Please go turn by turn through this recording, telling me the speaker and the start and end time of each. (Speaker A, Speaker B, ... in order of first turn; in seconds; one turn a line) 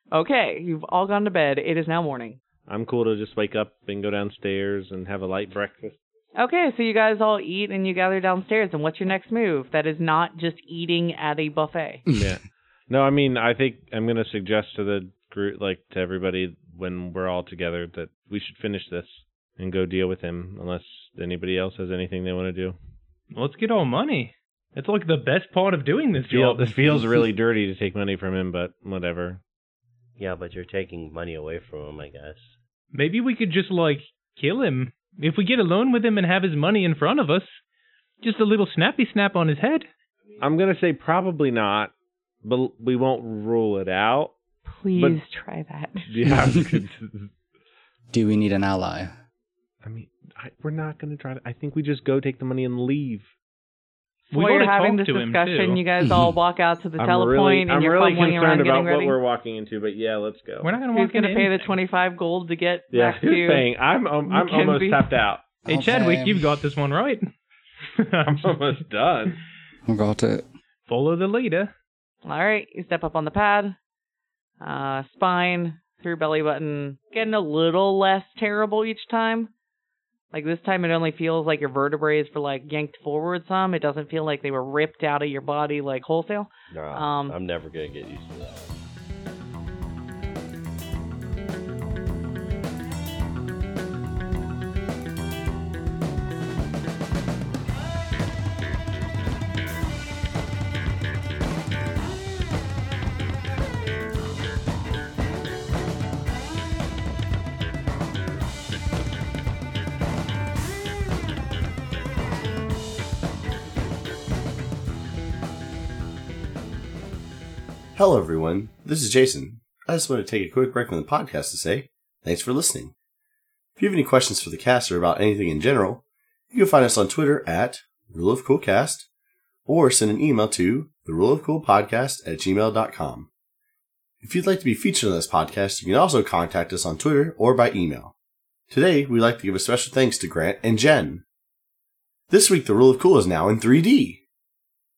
Speaker A: 0.1-2.4
Speaker B: 2.7-6.0
Speaker A: 6.4-12.0
Speaker B: 12.1-22.8
Speaker C: 23.3-26.6
Speaker B: 26.2-29.4
Speaker D: 30.2-32.5
Speaker C: 32.9-37.6
Speaker C: 38.2-39.9
Speaker B: 40.4-41.9
Speaker B: 42.4-44.3
Speaker A: 44.7-46.1
Speaker B: 44.9-45.2
Speaker B: 46.1-47.3
Speaker E: 46.4-46.7
Speaker E: 48.1-49.1
Speaker B: 49.8-53.3
Speaker C: 54.3-55.8
Speaker A: 54.3-59.2
Speaker B: 57.0-60.7
Speaker C: 60.6-61.8
Speaker A: 60.9-63.7
Speaker B: 62.9-65.5
Speaker A: 64.2-65.2
Speaker E: 65.7-66.5
Speaker C: 65.7-67.3
Speaker C: 67.9-68.7
Speaker B: 68.3-69.4
Speaker E: 69.9-70.5
Speaker C: 70.9-71.7
Speaker A: 72.2-73.8
Speaker A: 74.6-79.5
Speaker A: 80.3-87.4
Speaker D: 86.7-88.7
Speaker F: 117.9-122.9
Speaker F: 123.8-129.1
Speaker F: 129.7-133.3
Speaker F: 134.2-138.1
Speaker F: 138.7-141.2
Speaker F: 142.3-144.2